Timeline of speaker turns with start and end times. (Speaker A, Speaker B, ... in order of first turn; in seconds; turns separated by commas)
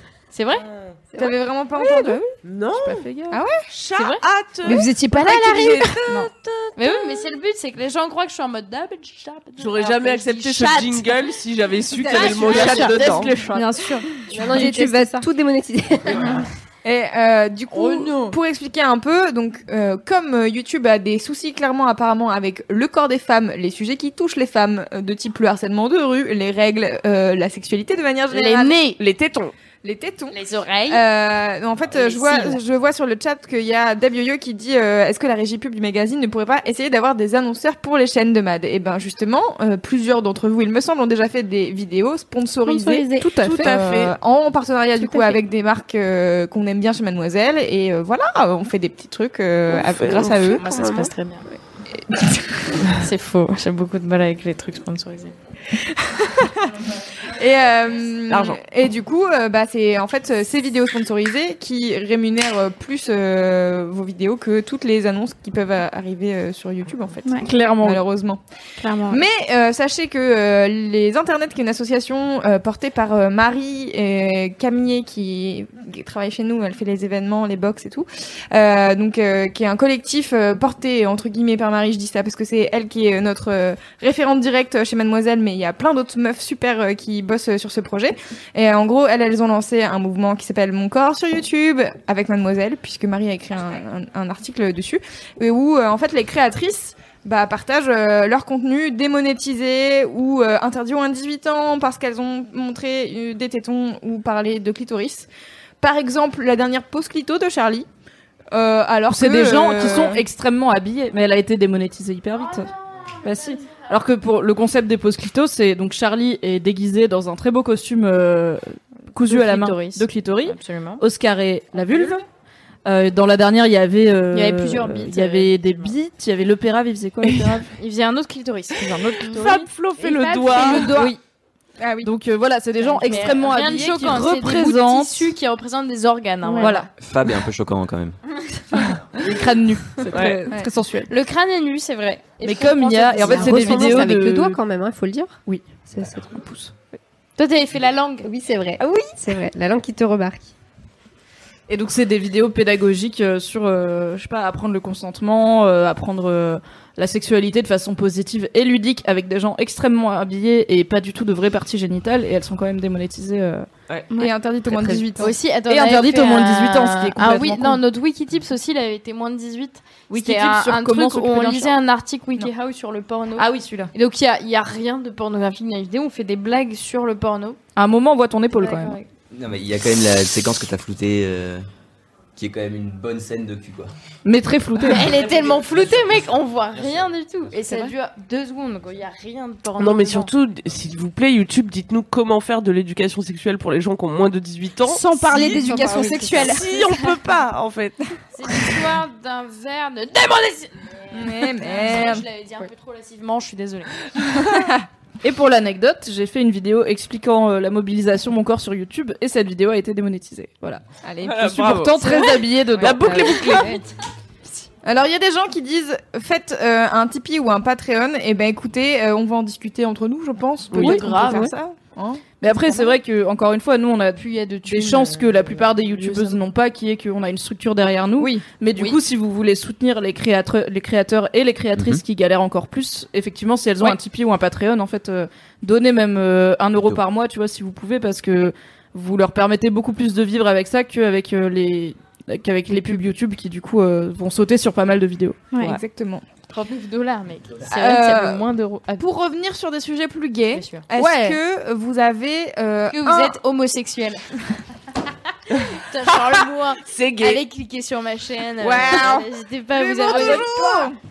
Speaker A: 0.3-0.6, Speaker B: 1.1-2.2, Speaker C: 2.4-3.0, Speaker D: 2.8-3.3, Speaker B: 3.3-3.6, Speaker C: 3.7-4.9, Speaker A: 4.0-4.2, Speaker E: 4.6-6.0, Speaker B: 4.8-5.9, Speaker C: 6.2-6.9, Speaker A: 6.8-11.1, Speaker C: 9.6-13.4, Speaker D: 12.1-13.7, Speaker A: 12.2-12.8, Speaker E: 13.5-15.2, Speaker F: 14.3-16.4, Speaker B: 16.8-28.8, Speaker A: 17.8-18.3, Speaker A: 28.3-29.0, Speaker C: 29.0-29.5, Speaker B: 29.8-30.4, Speaker A: 30.3-31.1, Speaker B: 30.9-50.9, Speaker A: 31.9-32.6, Speaker E: 42.6-43.7, Speaker C: 43.4-44.1, Speaker E: 45.0-45.4, Speaker C: 49.7-51.1, Speaker A: 50.5-51.4, Speaker A: 53.0-55.3, Speaker B: 57.3-68.4, Speaker C: 58.3-58.6, Speaker D: 67.4-68.0, Speaker E: 68.8-69.2, Speaker B: 69.1-105.3, Speaker B: 105.8-107.9, Speaker B: 108.5-110.2, Speaker D: 109.1-112.7, Speaker A: 112.4-113.9, Speaker D: 113.2-122.2, Speaker A: 119.2-121.0, Speaker D: 122.8-127.7, Speaker A: 124.3-125.9, Speaker A: 127.7-131.1, Speaker D: 128.8-129.6, Speaker C: 129.3-131.0, Speaker D: 130.4-131.2, Speaker B: 131.8-132.1, Speaker D: 132.0-135.3, Speaker A: 132.8-136.9, Speaker D: 136.6-136.9, Speaker G: 137.0-138.2, Speaker D: 139.2-141.1, Speaker C: 140.1-140.4, Speaker A: 141.1-144.1, Speaker D: 142.4-144.6, Speaker F: 143.2-145.4, Speaker D: 145.4-146.7, Speaker A: 147.4-148.3, Speaker F: 148.2-150.5, Speaker D: 151.7-163.7, Speaker B: 164.2-165.3, Speaker D: 164.8-167.8, Speaker A: 165.2-177.6, Speaker D: 170.1-171.8, Speaker D: 173.4-173.9, Speaker D: 177.8-179.0, Speaker A: 178.5-179.1, Speaker G: 179.3-181.7, Speaker G: 182.3-183.9, Speaker D: 184.2-185.1, Speaker A: 184.8-190.3, Speaker G: 185.2-186.2, Speaker C: 189.8-195.7, Speaker E: 194.8-196.6, Speaker B: 195.3-196.6, Speaker A: 195.8-197.1, Speaker C: 196.3-198.2, Speaker A: 198.3-203.9, Speaker B: 201.1-202.3, Speaker D: 204.4-204.7, Speaker D: 205.2-210.8, Speaker B: 211.0-213.8, Speaker C: 211.2-213.8, Speaker D: 211.4-213.7, Speaker B: 214.8-222.2, Speaker A: 220.7-221.6, Speaker D: 220.7-221.1, Speaker D: 222.4-245.4, Speaker A: 222.4-223.0, Speaker A: 224.2-226.4, Speaker B: 228.2-228.9, Speaker G: 231.8-232.0, Speaker E: 245.5-245.8, Speaker B: 245.6-246.2, Speaker A: 246.5-249.1, Speaker B: 247.7-248.4, Speaker B: 249.0-253.4, Speaker A: 250.5-251.4, Speaker A: 252.9-254.2, Speaker A: 255.8-260.9, Speaker C: 256.0-257.4, Speaker B: 258.6-261.0, Speaker C: 260.1-260.4